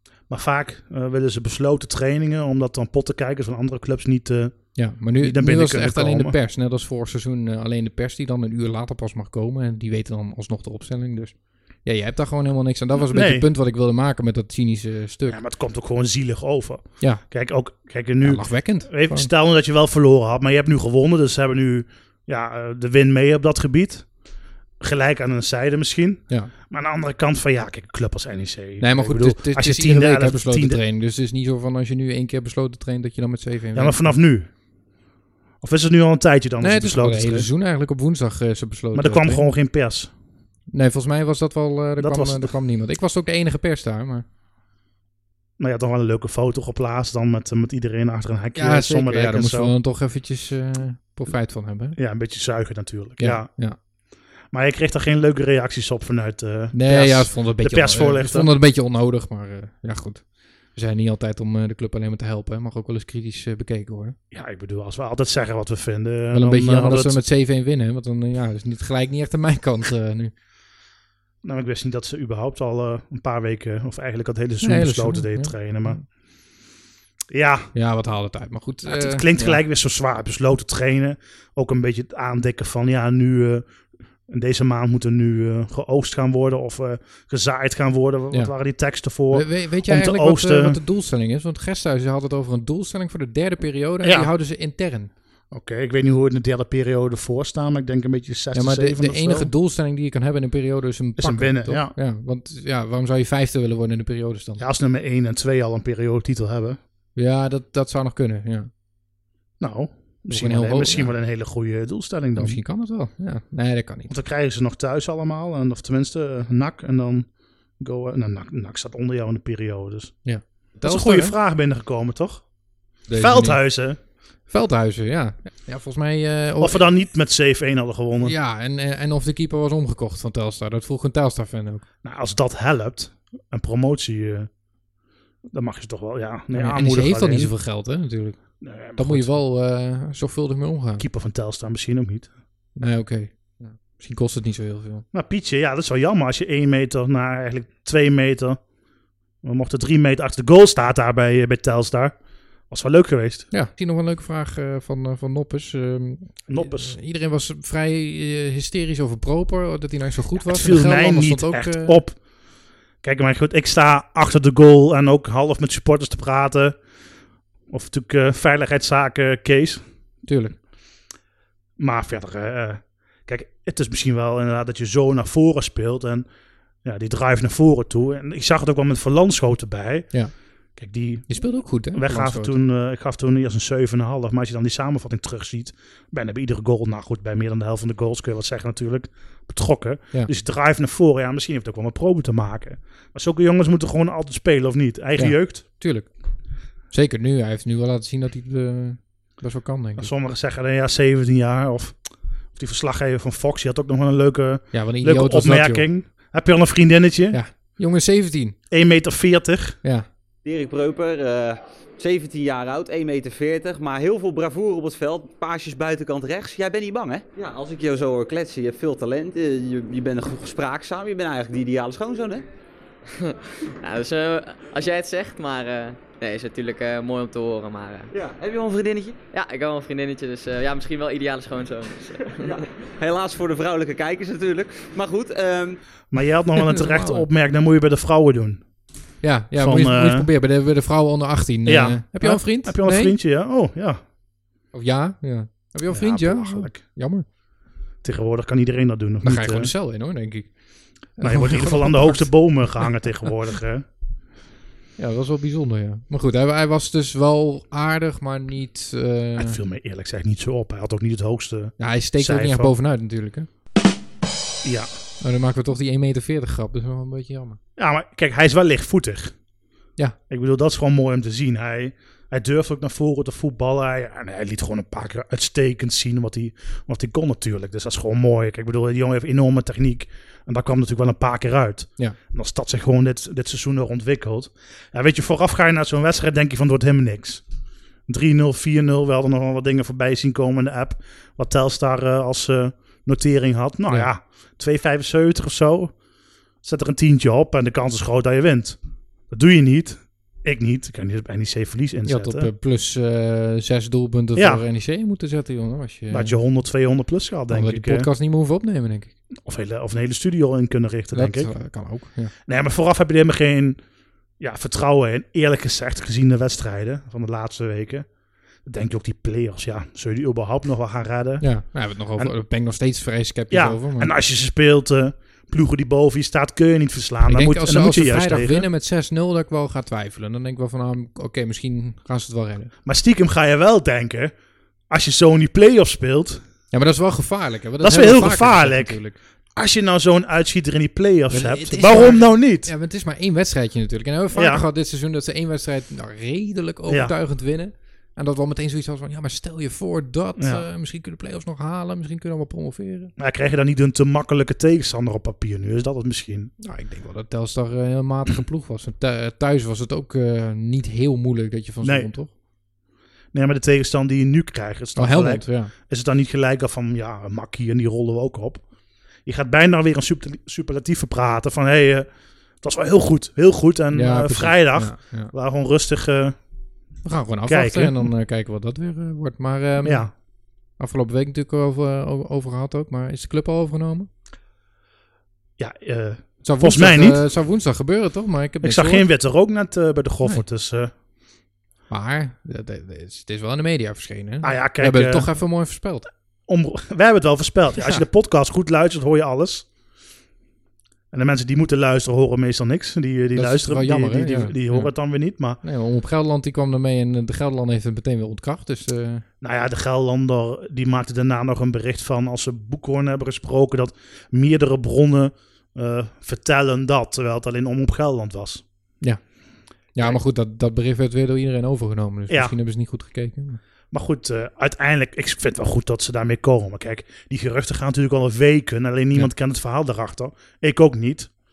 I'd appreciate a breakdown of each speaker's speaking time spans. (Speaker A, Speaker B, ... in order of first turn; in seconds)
Speaker A: 0.3-6.3, 13.0-13.4, 15.3-24.1, 24.8-30.8, 33.7-34.5, 35.6-37.5, 38.9-40.1, 42.0-42.5, 45.6-49.7, 52.0-53.5, 54.5-58.5, 64.3-67.2, 71.4-76.0, 77.3-77.7, 78.8-83.7, 84.3-90.8, 94.0-94.3, 95.5-99.5, 101.2-101.9, 104.6-106.8, 109.6-112.6, 114.1-120.2, 120.8-122.5, 123.1-124.0, 126.6-128.3, 132.0-134.5, 135.5-137.5, 138.6-139.4, 141.0-142.3, 145.1-148.6, 149.4-152.2, 152.7-153.5, 156.5-157.0, 160.4-162.2, 163.0-166.8, 167.7-169.8, 171.8-176.3, 176.8-180.1, 180.8-181.3, 181.9-195.6, 200.0-202.0, 202.5-207.4, 208.7-209.8, 236.1-238.6, 239.6-240.3, 241.7-244.0, 245.9-246.8, 248.0-249.7, 251.2-253.8, 259.4-262.7, 264.6-264.9, 267.8-269.3, 270.3-287.4, 288.1-295.9, 296.6-298.8, 299.3-302.5, 304.4-304.6, 306.1-308.1, 309.4-311.5, 312.4-313.8, 314.4-318.1, 318.6-321.4, 323.5-328.6, 332.8-334.3, 334.9-336.4, 337.8-339.0, 339.6-342.7, 344.3-344.6, 346.9-347.1, 350.4-350.6, 353.2-356.5, 361.8-362.1, 363.3-368.6, 369.2-372.1, 372.6-376.4, 377.4-378.1, 379.8-380.1, 385.6-387.2, 388.6-390.9, 394.4-395.3, 396.5-399.7, 401.1-405.6, 409.4-418.6, 422.3-422.5, 423.9-431.3
Speaker B: 4.7-15.4, 18.2-19.3, 28.8-34.1, 36.6-39.4, 40.7-44.2, 48.5-52.0, 53.2-53.8, 56.7-64.2, 66.3-70.3, 74.6-76.0, 77.7-79.6, 89.3-95.1, 98.5-104.6, 107.2-108.7, 110.3-111.1, 112.4-114.1, 120.2-121.3, 123.1-123.6, 124.5-126.8, 128.2-131.8, 136.5-141.1, 142.8-145.0, 153.5-162.0, 170.2-170.6, 181.3-182.6, 195.2-196.1, 196.9-200.1, 204.7-205.9, 207.3-208.6, 236.6-237.3, 239.2-243.2, 244.7-247.2, 249.2-250.5, 251.2-253.1, 255.0-259.6, 261.8-263.5, 265.2-267.6, 302.1-306.4, 307.5-309.1, 311.1-312.3, 321.4-324.1, 327.2-332.7, 336.7-339.2, 341.3-353.1, 356.6-362.3, 364.9-365.7, 373.9-375.3, 377.0-380.1, 380.8-384.1, 386.4-389.1, 391.9-396.1, 397.8-398.1, 403.3-404.9, 405.6-409.2, 419.9-423.6
Speaker C: 210.4-222.4, 228.1-229.3, 232.4-235.8
Speaker D: 223.2-228.1, 229.3-232.5